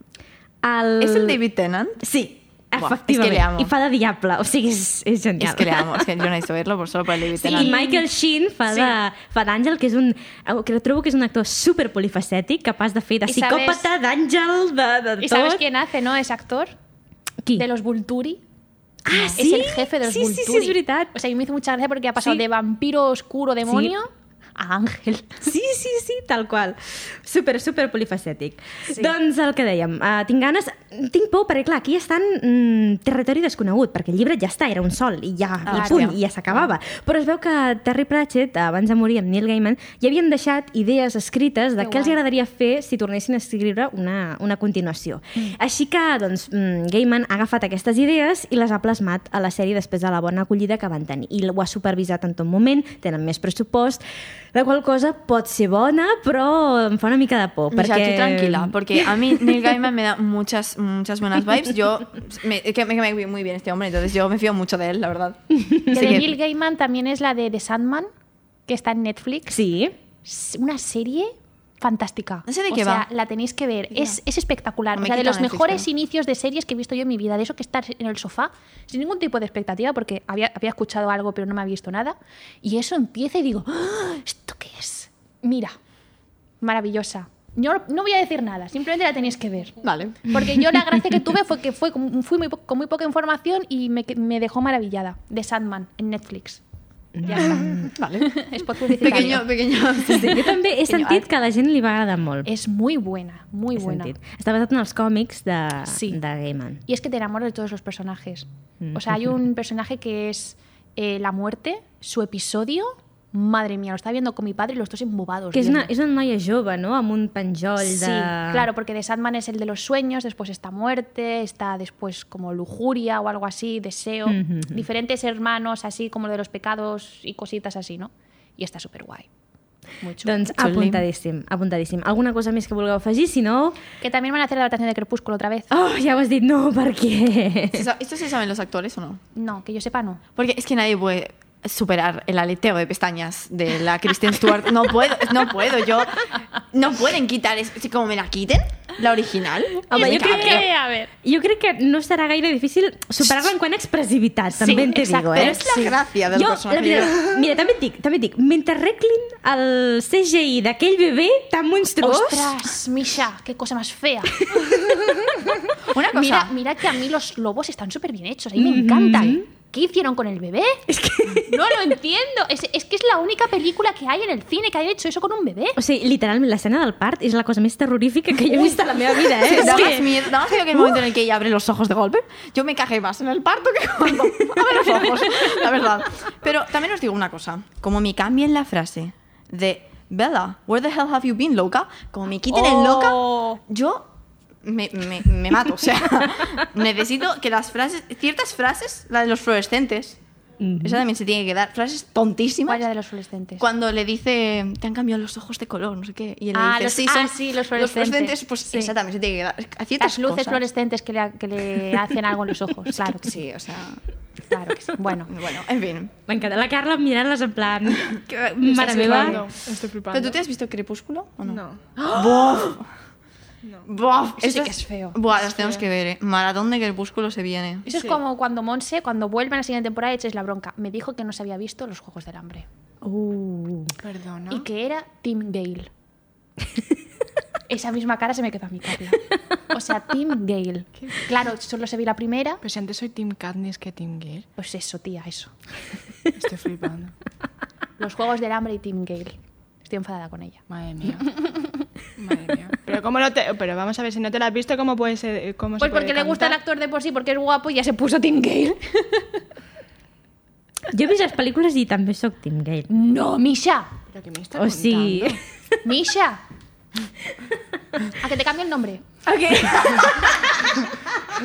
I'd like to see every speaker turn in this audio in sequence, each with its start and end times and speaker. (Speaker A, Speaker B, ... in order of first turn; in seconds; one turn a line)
Speaker A: 0.6-1.4
Speaker B: 1.0-2.0
Speaker A: 2.0-6.1
Speaker B: 2.8-3.7
Speaker B: 5.4-7.7
Speaker A: 7.4-15.6
Speaker C: 7.5-8.1
Speaker C: 8.7-8.9
Speaker C: 13.2-13.9
Speaker C: 15.2-16.7
Speaker C: 17.6-18.4
Speaker A: 19.1-21.1
Speaker C: 19.1-25.4
Speaker A: 22.2-22.4
Speaker A: 23.6-23.9
Speaker A: 25.4-54.0
Speaker C: 28.9-29.1
Speaker B: 35.6-36.7
Speaker C: 35.7-36.1
Speaker C: 41.8-42.2
Speaker A: 54.5-59.1
Speaker B: 57.7-66.3
Speaker A: 65.5-66.2
Speaker C: 65.9-68.1
Speaker C: 68.7-69.6
Speaker A: 69.5-69.9
Speaker C: 70.2-85.8
Speaker B: 72.5-73.1
Speaker B: 73.9-74.2
Speaker B: 74.9-75.9
Speaker C: 86.6-96.6
Speaker B: 89.8-90.3
Speaker A: 97.2-97.9
Speaker C: 97.2-99.5
Speaker B: 97.5-100.6
Speaker A: 100.1-102.5
Speaker C: 100.9-101.2
Speaker C: 102.5-104.1
Speaker A: 103.8-106.8
Speaker C: 105.9-106.2
Speaker C: 106.8-115.9
Speaker A: 108.8-109.3
Speaker A: 115.5-118.7
Speaker C: 117.8-129.3
Speaker A: 124.3-124.8
Speaker C: 130.0-130.5
Speaker A: 130.2-133.8
Speaker B: 130.5-131.0
Speaker C: 134.0-135.7
Speaker A: 135.7-137.8
Speaker B: 137.7-139.2
Speaker C: 139.3-140.2
Speaker B: 140.3-150.7
Speaker A: 149.9-150.7
Speaker C: 149.9-151.1
Speaker A: 151.2-155.6
Speaker C: 154.5-155.9
Speaker B: 155.3-157.2
Speaker A: 156.3-162.5
Speaker C: 162.0-170.8
Speaker A: 164.5-165.0
Speaker B: 165.8-166.5
Speaker A: 168.6-169.4
Speaker A: 170.9-171.6
Speaker C: 171.4-175.8
Speaker A: 175.8-180.3
Speaker C: 178.5-180.0
Speaker B: 179.4-194.1
Speaker C: 192.5-193.6
Speaker B: 194.6-200.2
Speaker A: 200.6-201.0
Speaker B: 200.8-202.8
Speaker C: 202.7-203.6
Speaker B: 203.6-210.7
Speaker C: 206.5-208.9
Speaker C: 210.0-213.4
Speaker B: 213.1-214.0
Speaker C: 214.5-215.3
Speaker B: 215.3-216.1
Speaker A: 216.3-219.4
Speaker D: 218.7-220.4
Speaker C: 218.7-219.4
Speaker B: 220.1-222.9
Speaker D: 221.4-222.0
Speaker B: 223.8-227.9
Speaker C: 224.4-225.2
Speaker C: 227.8-232.7
Speaker D: 227.9-228.2
Speaker A: 233.0-233.9
Speaker D: 234.0-234.7
Speaker C: 234.5-235.9
Speaker C: 237.7-242.6
Speaker D: 242.6-244.5
Speaker C: 244.6-245.5
Speaker D: 246.3-247.1
Speaker C: 248.0-250.6
Speaker D: 250.7-251.4
Speaker D: 252.2-256.6
Speaker C: 255.8-259.4
Speaker A: 260.9-262.9
Speaker C: 262.9-263.9
Speaker D: 264.1-265.4
Speaker A: 264.5-265.4
Speaker C: 265.8-266.4
Speaker A: 267.5-268.0
Speaker C: 268.2-269.0
Speaker A: 269.2-270.6